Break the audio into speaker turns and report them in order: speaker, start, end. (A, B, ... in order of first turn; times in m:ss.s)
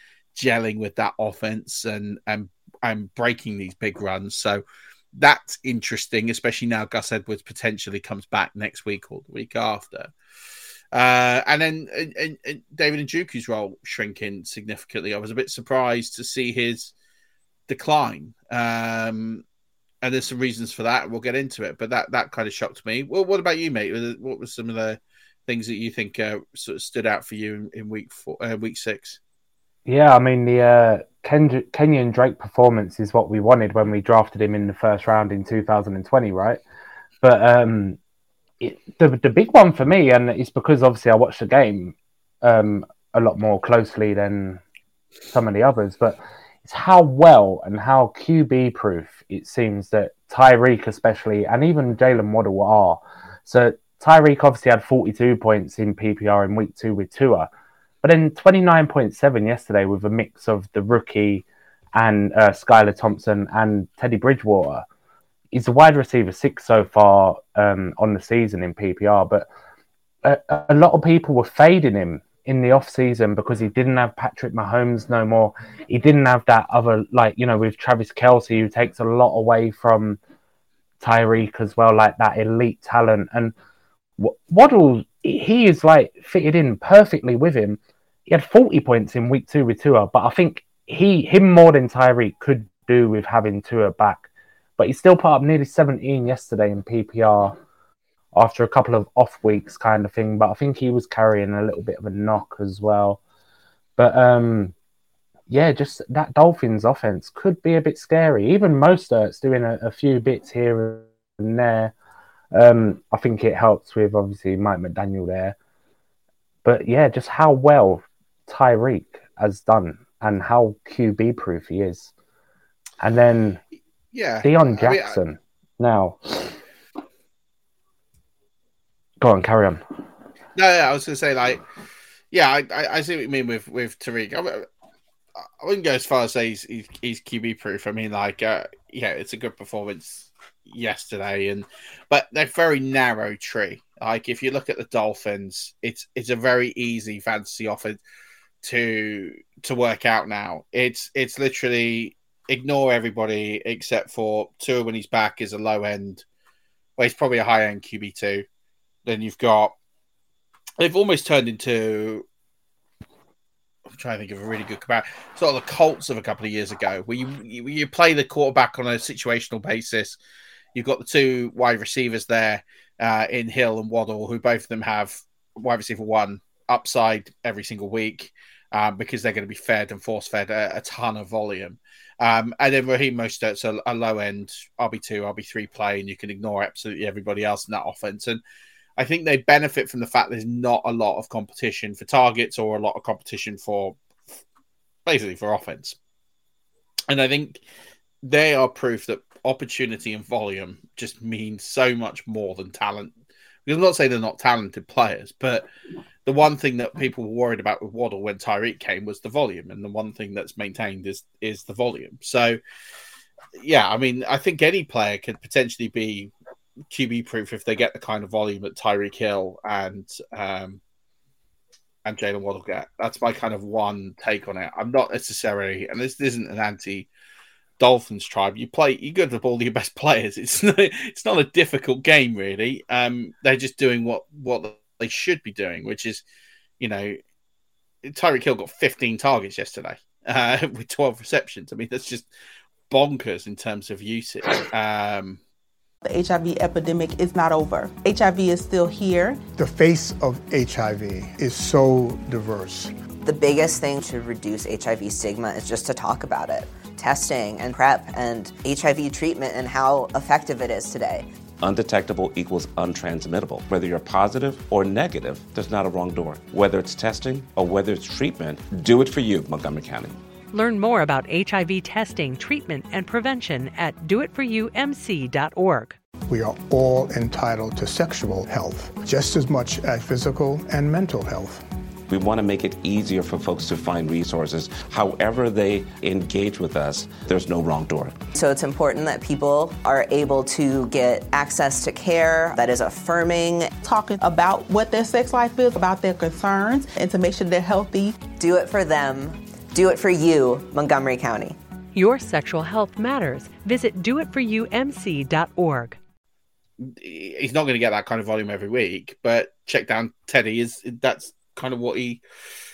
0:00.4-0:04.6 A
0:05.2-0:10.1 A
0:10.9-0:16.9 A
0:17.7-0:19.4 A
0:20.0-0:29.2 A
0:29.9-0:36.6 B
0:37.2-0:38.0 B
0:38.6-0:44.6 B
0:45.3-0:57.5 B
0:58.0-1:04.8 B
1:05.5-1:09.5 B
1:10.2-1:20.2 B
1:21.0-1:23.5 B
1:24.2-1:37.6 B
1:38.4-1:43.2 B
1:44.0-1:44.7 B
1:45.5-1:51.9 B
1:52.5-1:55.6 B
1:56.6-2:02.1 B
2:03.0-2:03.6 B
2:04.1-2:05.2 A
2:04.4-2:06.5 B
2:09.2-2:09.8 B
2:10.6-2:11.6 A
2:12.3-2:14.7 A
2:15.6-2:28.0 A
2:28.6-2:36.2 A
2:37.0-2:38.4 A
2:39.0-2:39.8 A
2:40.8-2:42.2 A
2:43.9-2:50.2 A
2:50.8-3:08.4 A
3:09.0-3:14.4 A
3:15.1-3:16.0 A
3:17.1-3:17.6 A
3:18.2-3:23.1 A
3:23.7-3:25.7 A
3:26.2-3:32.6 A
3:33.6-3:36.3 A
3:36.9-3:40.8 A
3:42.0-3:47.1 A
3:47.8-3:56.2 A
3:56.8-3:57.2 A
3:58.0-4:02.3 A
4:02.9-4:05.4 A
4:06.0-4:09.4 C
4:09.6-4:12.9 D
4:13.2-4:21.3 E
4:21.6-4:30.2 F
4:30.5-4:36.0 G
4:36.3-4:41.6 D
4:42.1-4:48.2 F
4:48.3-4:53.8 E
4:53.8-4:58.2 C
4:58.4-5:01.6 E
5:01.9-5:06.0 G
5:06.8-5:12.2 A